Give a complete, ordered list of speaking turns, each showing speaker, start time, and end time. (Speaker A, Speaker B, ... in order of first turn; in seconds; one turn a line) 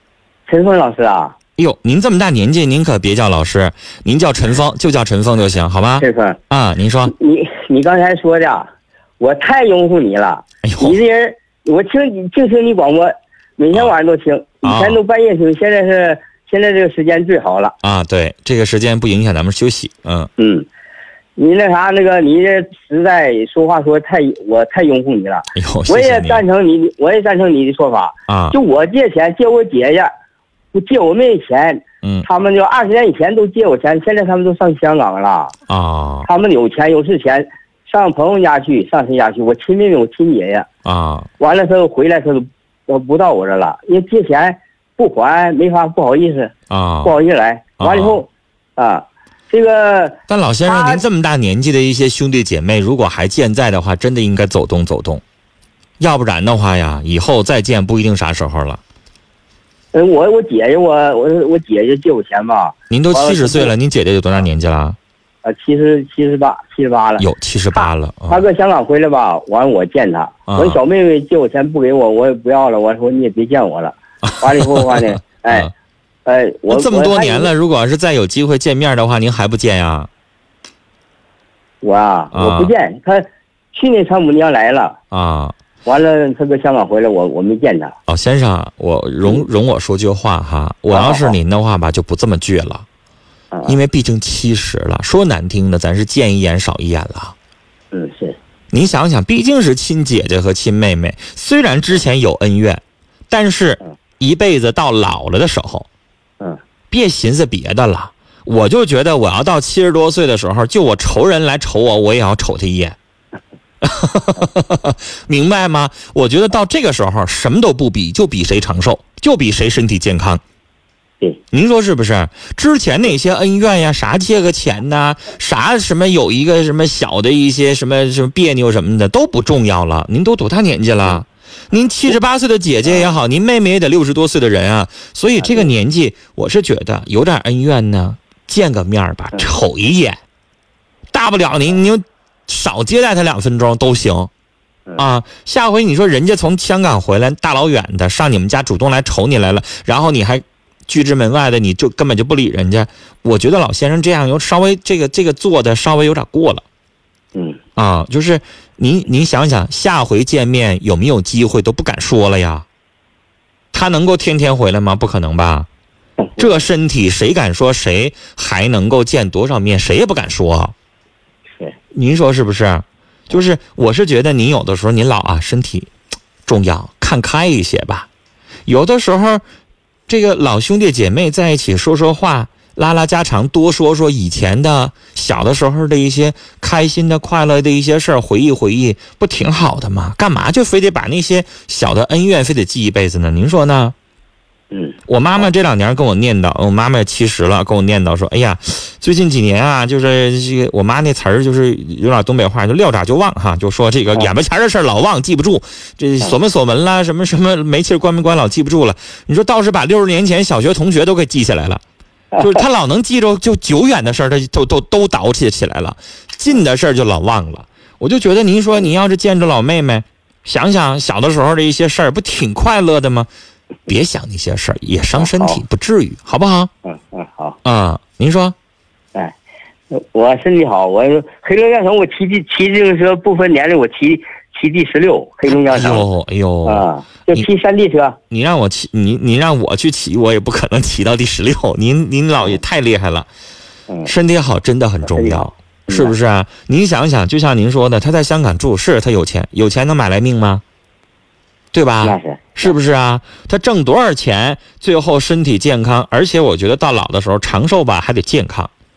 Speaker A: 0.5-1.3
Speaker B: 1.6-7.1
Speaker A: 6.0-6.4
Speaker A: 7.1-8.7
Speaker A: 9.2-17.7
Speaker B: 10.6-11.0
Speaker B: 14.6-15.0
Speaker B: 17.8-20.3
Speaker A: 20.4-20.6
Speaker A: 21.4-30.1
Speaker B: 25.6-26.4
Speaker B: 28.3-28.6
Speaker A: 30.7-35.5
Speaker B: 35.7-36.3
Speaker A: 36.2-40.7
Speaker B: 40.8-41.3
Speaker A: 41.4-51.0
Speaker B: 46.7-47.1
Speaker B: 47.8-48.2
Speaker B: 50.3-55.2
Speaker B: 56.0-58.8
Speaker A: 59.9-63.7
Speaker B: 62.9-65.0
Speaker A: 65.4-75.7
Speaker B: 67.2-68.4
Speaker B: 70.5-70.8
Speaker B: 74.2-75.7
Speaker A: 76.2-77.5
Speaker B: 76.7-80.1
Speaker A: 81.8-85.0
Speaker B: 82.3-82.7
Speaker B: 85.1-85.5
Speaker A: 85.8-87.9
Speaker B: 88.1-92.8
Speaker A: 90.9-91.3
Speaker B: 93.7-97.3
Speaker A: 97.9-98.4
Speaker B: 98.7-105.9
Speaker B: 106.9-113.0
Speaker B: 113.8-120.4
Speaker B: 121.5-140.2
Speaker A: 135.4-135.7
Speaker B: 141.1-144.3
Speaker B: 145.0-156.6
Speaker B: 157.8-162.6
Speaker B: 163.7-165.7
Speaker B: 166.4-170.7
Speaker B: 171.9-175.9
Speaker B: 176.4-178.1
Speaker B: 178.7-179.4
Speaker B: 180.1-193.9
Speaker B: 195.1-211.8
Speaker A: 212.3-212.6
Speaker B: 212.4-223.3
Speaker B: 223.9-226.7
Speaker A: 225.2-225.6
Speaker A: 226.8-227.6
Speaker B: 227.6-228.5
Speaker A: 229.9-236.1
Speaker B: 235.7-237.5
Speaker A: 236.6-238.2
Speaker B: 238.3-243.3
Speaker B: 244.0-250.6
Speaker A: 245.0-246.1
Speaker B: 251.7-258.7
Speaker A: 252.0-252.7